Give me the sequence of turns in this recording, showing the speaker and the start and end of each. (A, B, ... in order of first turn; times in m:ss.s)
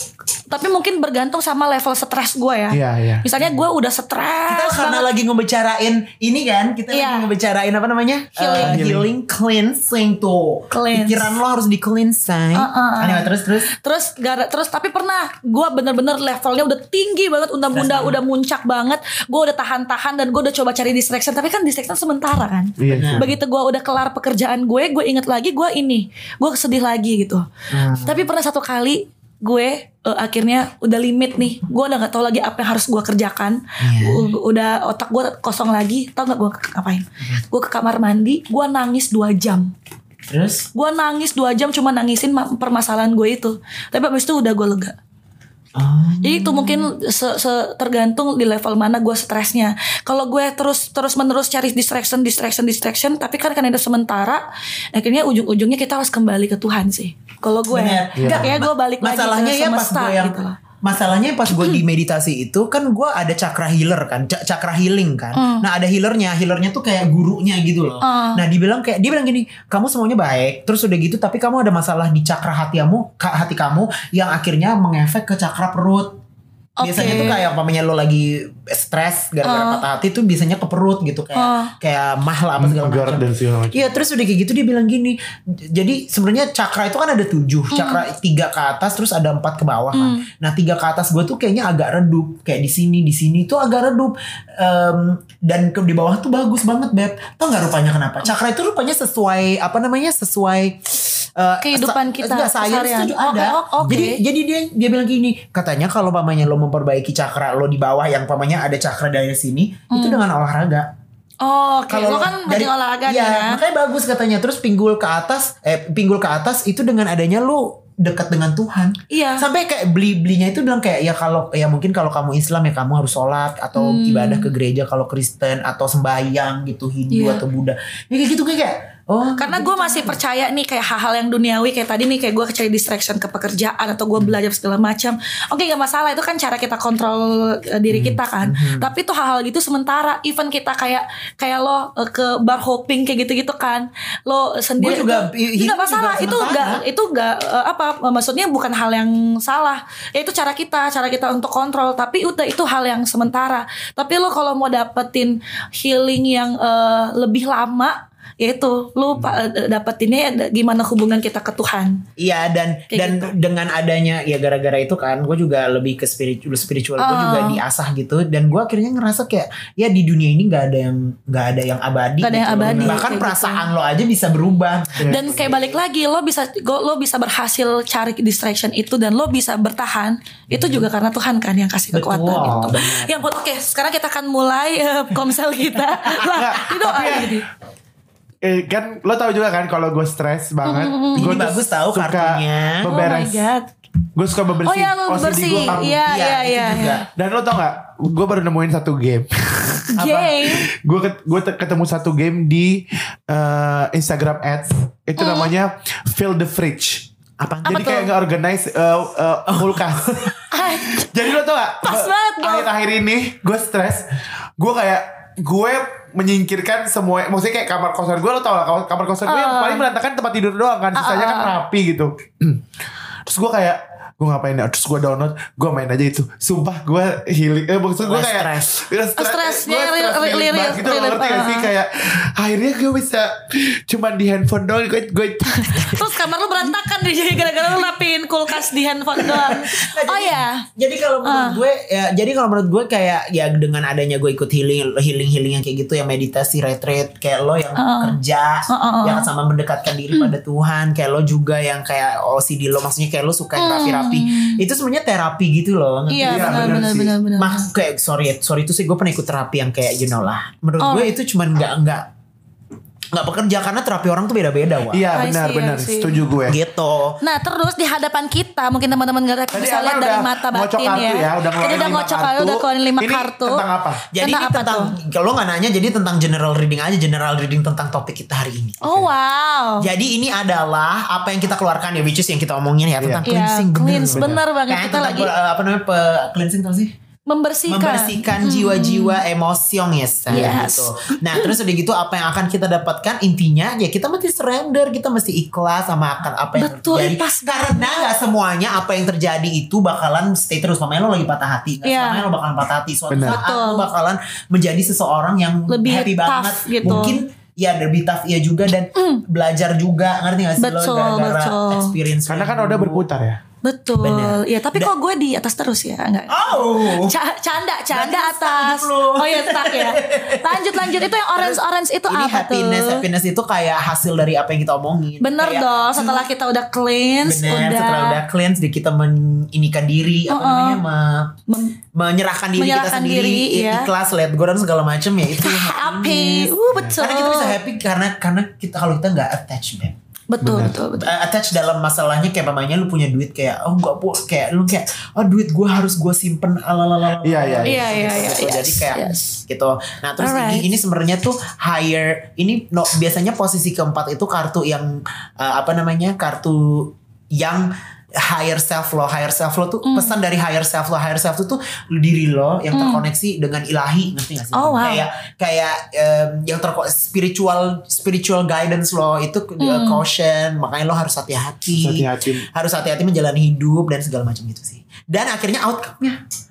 0:00.5-0:05.1 A
0:02.7-0:03.3 B
0:04.5-0:13.7 C
0:06.9-0:07.3 A
0:08.4-0:08.8 A
0:08.6-0:09.1 B
0:10.7-0:11.3 A
0:12.5-0:27.5 A
0:17.7-0:18.2 C
0:22.8-0:23.4 B
0:22.9-0:23.3 C
0:27.7-0:28.3 C
0:28.0-0:39.7 A
0:33.8-0:34.3 C
0:40.3-0:40.7 C
0:40.7-0:45.0 A
0:45.8-0:46.9 C
0:46.2-1:00.6 A
0:57.7-1:16.2 C
0:58.2-0:58.6 B
1:01.5-1:01.8 A
1:05.3-1:05.6 A
1:08.0-1:08.4 A
1:16.8-1:17.4 A
1:16.8-1:50.9 C
1:19.4-1:19.8 A
1:21.4-1:21.7 A
1:22.6-1:23.9 B
1:27.7-1:28.0 A
1:29.9-1:30.2 A
1:41.6-1:44.2 A
1:49.9-1:50.2 A
1:51.4-1:53.6 A
1:51.9-2:10.2 C
1:59.1-1:59.4 A
2:03.8-2:04.5 A
2:07.1-2:07.4 A
2:09.4-2:42.0 A
2:17.9-2:18.9 C
2:24.8-2:26.8 C
2:42.2-2:55.8 C
2:42.9-2:43.3 A
2:47.0-2:47.6 A
2:52.2-2:53.7 A
2:52.6-2:53.0 B
2:55.0-2:55.5 B
2:55.1-3:07.4 A
3:00.5-3:00.8 C
3:01.9-3:03.2 C
3:06.3-3:07.4 B
3:08.4-3:13.5 B
3:10.6-3:11.4 A
3:11.2-3:12.9 C
3:12.8-3:13.7 A
3:14.1-3:16.0 B
3:14.6-3:17.0 A
3:15.9-3:17.0 C
3:17.2-3:27.1 B
3:19.9-3:20.7 A
3:25.2-3:25.5 A
3:27.4-3:27.9 C
3:27.6-3:42.6 B
3:27.7-3:28.1 A
3:29.5-3:30.3 C
3:30.5-3:31.2 A
3:31.8-3:32.7 A
3:39.2-3:39.9 A
3:40.9-3:41.6 A
3:43.2-3:56.0 B
3:48.0-3:48.7 C
3:49.2-3:51.7 A
3:55.5-4:00.6 A
3:59.2-4:22.1 C
4:01.2-4:01.6 A
4:07.8-4:08.2 A
4:08.7-4:09.3 A
4:13.6-4:14.6 A
4:16.1-4:17.6 A
4:16.2-4:17.1 B
4:20.8-4:21.1 A
4:23.1-4:25.1 C
4:24.9-4:26.6 B
4:25.1-4:26.2 A
4:26.5-4:27.2 C
4:27.2-4:33.6 A
4:29.5-4:34.0 B
4:34.1-4:39.1 C
4:34.2-4:35.0 A
4:38.8-4:39.9 A
4:39.8-4:46.9 C
4:43.0-4:43.4 B
4:43.2-4:45.3 A
4:44.1-4:44.4 B
4:47.3-4:49.2 A
4:47.7-5:13.0 C
4:50.3-4:51.5 A
4:50.3-4:50.6 B
4:56.6-4:58.1 A
5:01.8-5:02.2 A
5:03.1-5:03.4 B
5:03.2-5:03.9 A
5:05.7-5:07.2 A
5:06.8-5:07.1 B
5:09.0-5:09.2 A
5:10.6-5:11.9 A
5:12.3-5:13.4 B
5:13.6-5:23.0 A
5:14.0-5:14.9 C
5:16.3-5:17.1 C
5:17.9-5:26.3 C
5:25.2-5:28.2 A
5:27.2-5:31.4 C
5:30.3-5:30.8 A
5:31.5-5:31.8 A
5:31.9-5:40.0 C
5:32.6-5:33.9 A
5:35.4-5:37.6 A
5:40.3-5:41.1 A
5:40.4-5:40.8 B
5:41.0-6:16.2 C
5:47.2-5:48.2 B
5:47.6-5:49.4 A
5:50.2-5:50.7 A
5:59.9-6:00.2 A
6:02.7-6:03.0 A
6:04.5-6:05.1 A
6:09.6-6:10.0 A
6:11.7-6:12.5 B